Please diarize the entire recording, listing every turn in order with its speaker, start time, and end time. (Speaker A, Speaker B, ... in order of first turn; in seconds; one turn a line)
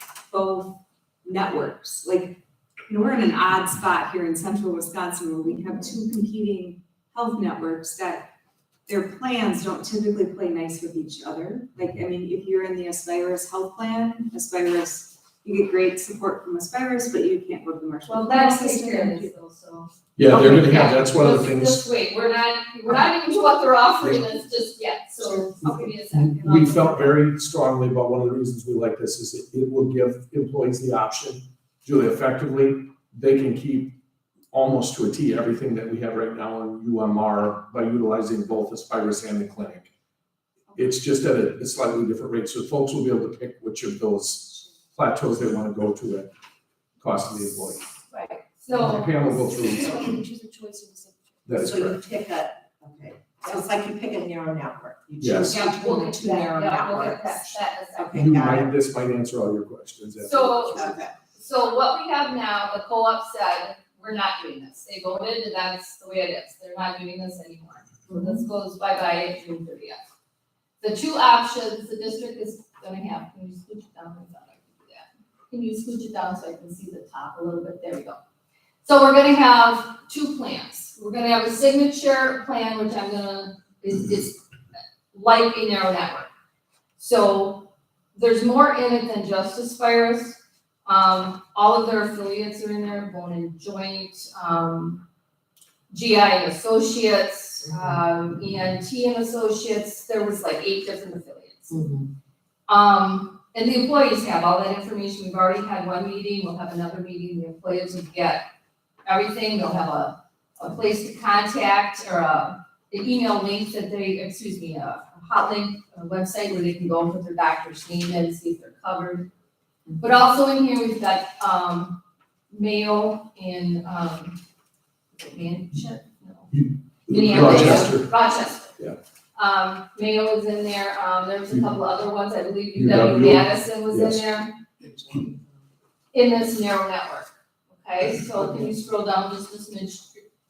Speaker A: 0.3-8.3
Speaker A: 8.9-19.3
Speaker B: 18.1-27.0
Speaker C: 20.2-21.8
Speaker A: 20.3-20.6
Speaker A: 25.2-27.1
Speaker C: 25.6-33.9
Speaker C: 34.5-39.9
Speaker C: 40.8-46.3
Speaker C: 47.0-47.9
Speaker B: 48.1-49.2
Speaker C: 48.7-50.1
Speaker D: 49.4-51.3
Speaker C: 51.5-52.0
Speaker E: 51.5-58.7
Speaker C: 55.2-55.6
Speaker B: 55.5-58.3
Speaker C: 58.1-60.5
Speaker B: 60.2-70.0
Speaker E: 60.6-61.1
Speaker E: 68.1-68.3
Speaker B: 70.8-78.2
Speaker B: 78.8-84.4
Speaker B: 85.1-86.3
Speaker B: 87.0-95.0
Speaker B: 95.9-101.8
Speaker E: 97.7-98.0
Speaker E: 101.7-102.1
Speaker B: 102.7-108.4
Speaker B: 109.1-119.3
Speaker B: 120.0-124.4
Speaker B: 125.1-126.5
Speaker C: 126.5-128.1
Speaker B: 127.1-128.7
Speaker B: 129.4-134.6
Speaker C: 132.8-134.2
Speaker E: 134.8-135.6
Speaker B: 136.1-140.2